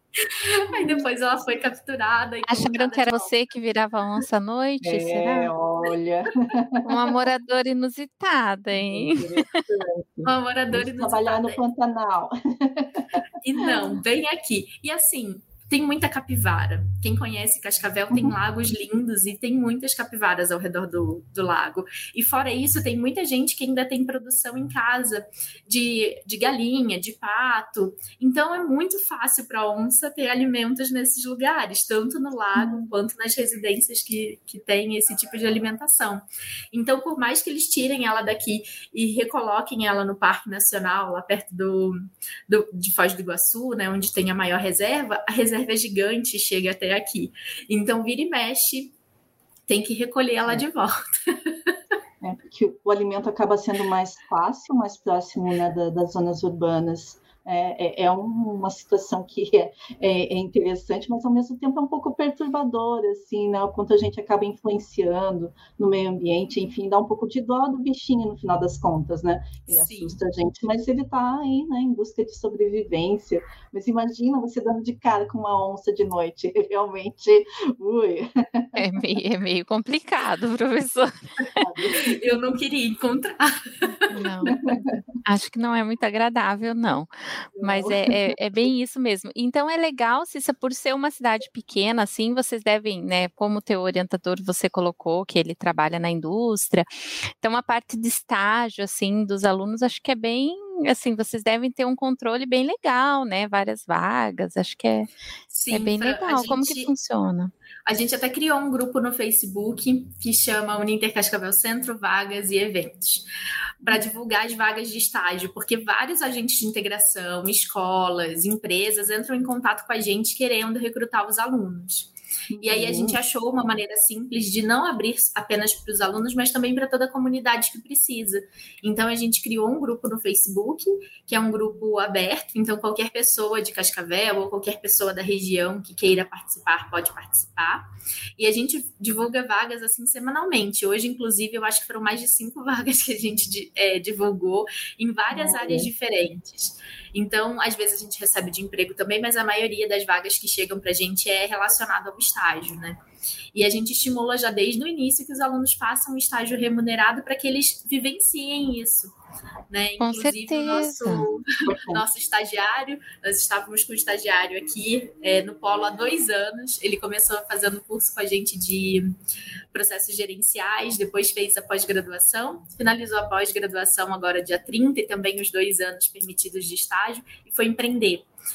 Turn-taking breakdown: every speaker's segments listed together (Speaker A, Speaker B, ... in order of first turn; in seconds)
Speaker A: 0.2-3.3, 10.2-11.6, 13.4-48.9, 49.7-51.7, 69.7-70.2, 81.9-84.5, 105.5-106.9, 107.9-113.2, 113.8-122.1, 122.6-153.0, 153.5-159.1, 159.7-169.1, 169.7-178.3
Speaker B: 2.5-5.5, 6.8-9.7, 78.8-81.3, 84.1-96.9, 97.4-105.1, 105.7-107.5, 160.0-161.3
Speaker C: 4.8-7.2, 8.7-14.0, 32.5-32.9, 52.2-78.8, 81.5-82.4, 84.5-85.0, 87.6-88.3, 122.5-123.2, 145.3-145.9, 161.7-162.0